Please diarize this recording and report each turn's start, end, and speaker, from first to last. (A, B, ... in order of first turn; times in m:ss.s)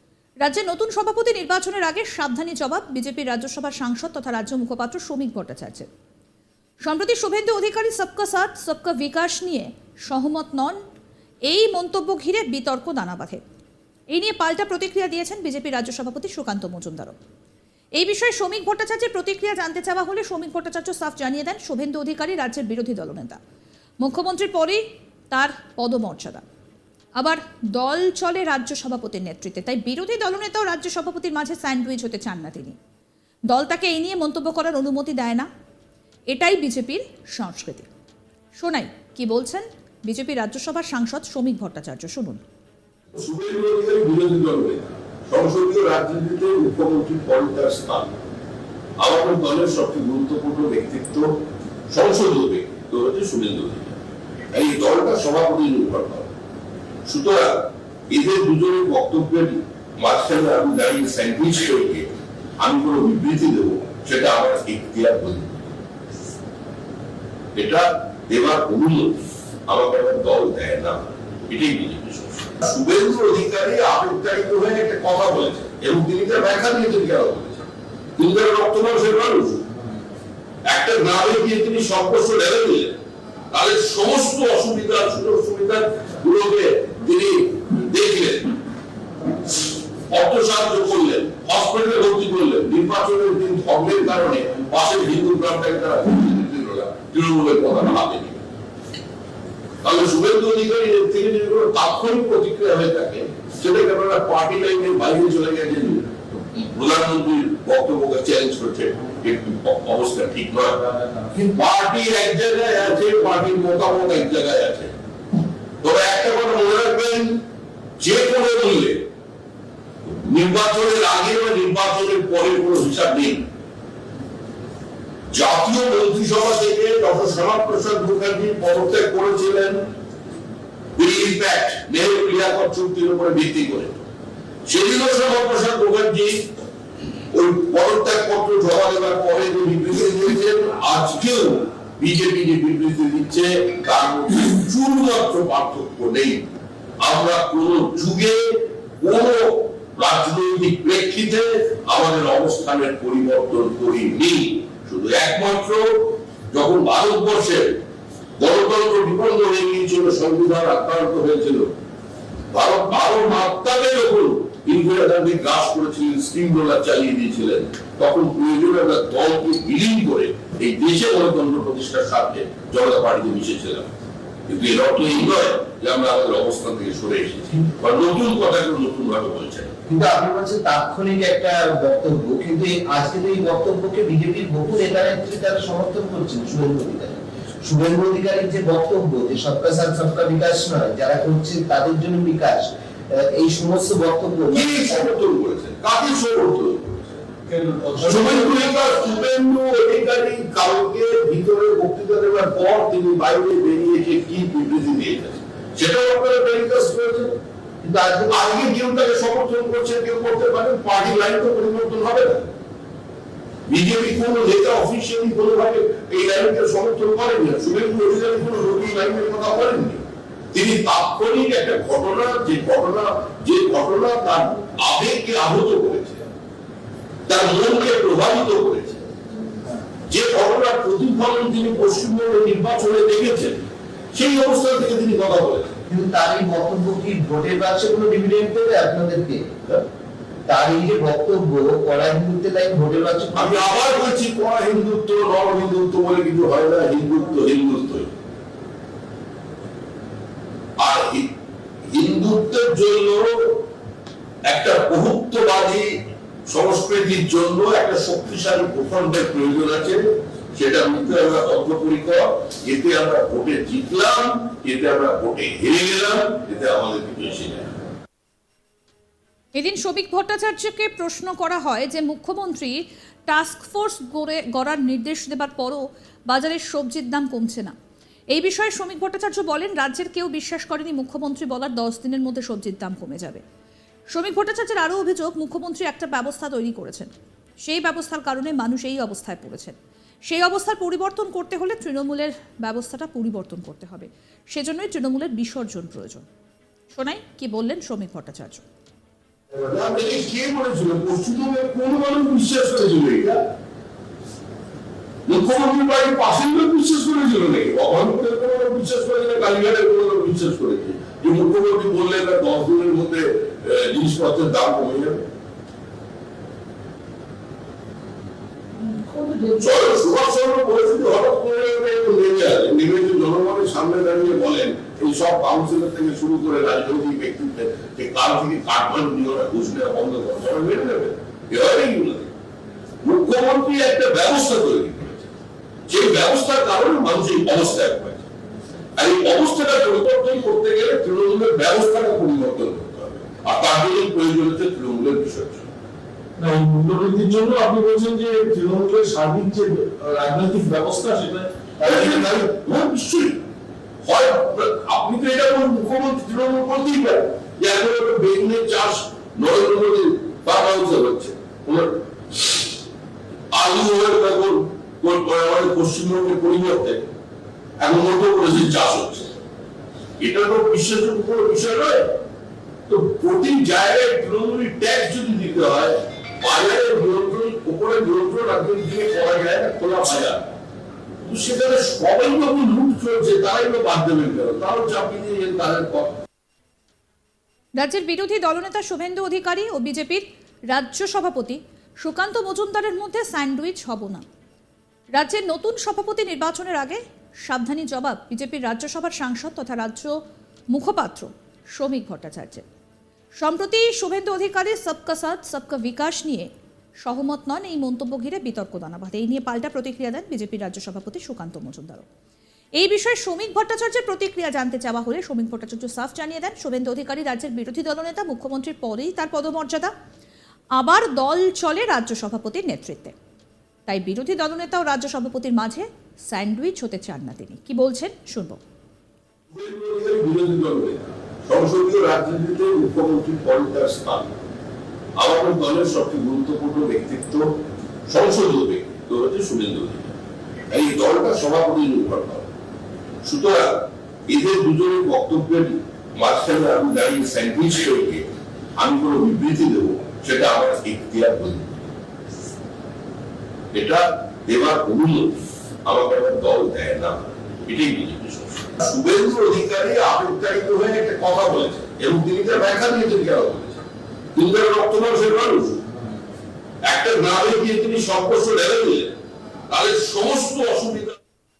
0:00.4-0:05.9 A
0:06.8-0:10.8 A
0:11.5-0:13.4 A
0:14.1-0:17.2 A
0:18.0-0:23.4 A
0:24.0-0:26.4 A
0:27.2-0:32.8 A
0:33.5-0:35.5 A
0:36.3-0:37.9 A
0:38.6-0:42.4 A
0:43.1-0:48.1 B
0:49.0-0:51.3 B
0:51.9-0:54.0 B
0:54.5-0:56.3 B
0:57.0-1:02.1 B
1:02.6-1:05.7 B
1:07.5-1:17.7 B
1:18.2-1:19.6 B
1:20.7-1:23.0 B
1:23.5-1:28.5 B
1:30.1-1:38.4 B
1:39.8-1:50.8 B
1:51.4-1:54.9 B
1:55.8-1:57.4 B
1:58.0-1:59.0 B
2:00.0-2:03.4 B
2:05.3-2:09.8 B
2:11.0-2:14.0 B
2:14.7-2:16.4 B
2:17.3-2:26.5 B
2:27.0-2:37.8 B
2:38.4-2:41.7 B
2:42.5-2:53.9 B
2:54.5-2:59.8 B
2:59.9-3:15.1 C
3:14.5-3:17.4 B
3:17.5-3:18.7 D
3:18.0-3:27.3 B
3:27.8-3:28.4 C
3:28.3-3:32.5 B
3:33.7-3:46.2 B
3:47.3-3:49.0 B
3:50.1-3:55.8 B
3:55.9-3:59.8 C
4:00.5-4:03.8 C
4:03.3-4:08.1 B
4:10.8-4:11.3 B
4:11.9-4:13.6 B
4:14.5-4:15.9 B
4:16.5-4:20.0 B
4:20.5-4:27.7 B
4:29.6-4:37.7 A
4:38.3-4:43.4 A
4:44.1-4:47.1 A
4:47.6-4:56.2 A
4:56.9-4:58.6 A
4:59.5-5:03.4 B
5:05.3-5:15.2 B
5:18.9-5:19.5 C
5:19.6-5:32.3 B
5:33.0-5:35.3 B
5:35.9-5:38.2 B
5:39.0-5:45.7 B
5:46.4-5:52.2 D
5:51.8-5:53.4 B
5:54.0-6:02.6 B
6:03.5-6:07.1 B
6:07.8-6:09.3 B
6:10.2-6:12.2 B
6:12.9-6:20.5 B
6:21.2-6:26.2 B
6:27.8-6:34.2 A
6:35.2-6:40.2 A
6:40.7-6:42.6 A
6:43.4-6:46.5 A
6:47.0-6:52.0 A
6:52.8-6:59.9 A
7:00.8-7:03.2 A
7:03.9-7:08.6 A
7:09.5-7:14.3 B
7:15.2-7:17.5 B
7:18.1-7:20.2 B
7:20.7-7:22.5 B
7:23.2-7:28.2 B
7:28.8-7:31.9 B
7:33.7-7:45.8 B
7:46.9-7:49.1 B
7:49.7-7:51.2 B